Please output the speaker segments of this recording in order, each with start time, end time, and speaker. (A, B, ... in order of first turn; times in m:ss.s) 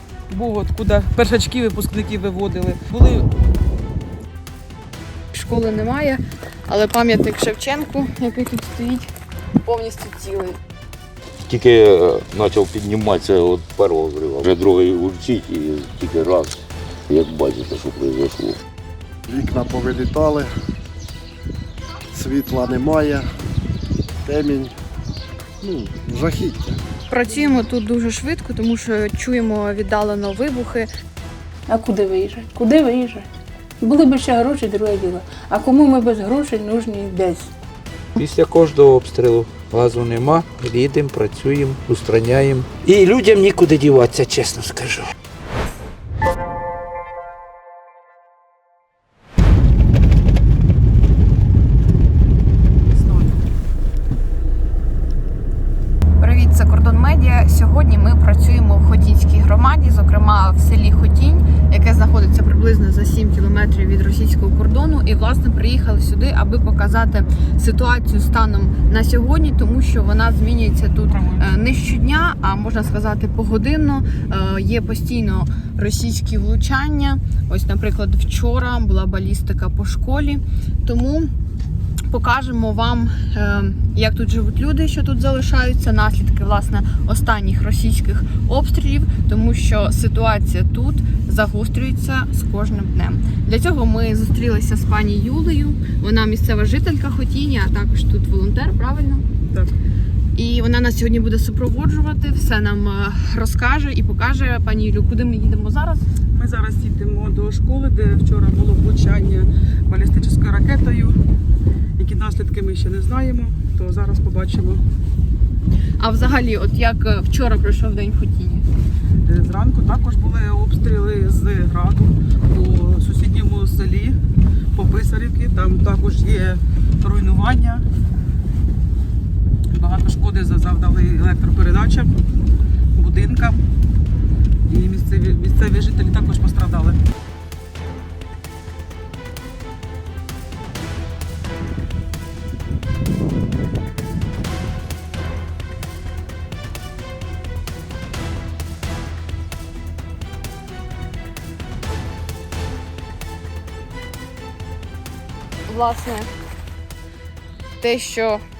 0:00.3-0:03.3 A
0:05.3-0:09.1 B
0:09.6-0:10.6 B
0:11.4-0:18.6 C
0:19.3-0:20.5 D
0:22.1-0:23.2 D
0:24.2-0:24.7 D
0:25.6-0:26.8 D
0:27.1-0:30.9 B
0:31.7-0:33.3 E
0:33.8-0:37.5 E
0:38.2-0:45.0 F
0:52.9-0:53.4 A
0:56.2-1:21.3 B
1:11.1-1:11.6 A
1:22.1-1:39.2 B
1:39.4-1:39.7 A
1:40.3-1:46.0 B
1:46.3-1:51.2 A
1:52.0-1:54.8 A
1:56.0-1:58.7 B
1:59.2-2:04.2 A
2:04.7-2:07.8 A
2:09.7-2:12.1 A
2:12.9-2:13.6 A
2:14.7-2:17.0 A
2:35.7-2:36.3 B
2:37.8-2:38.4 B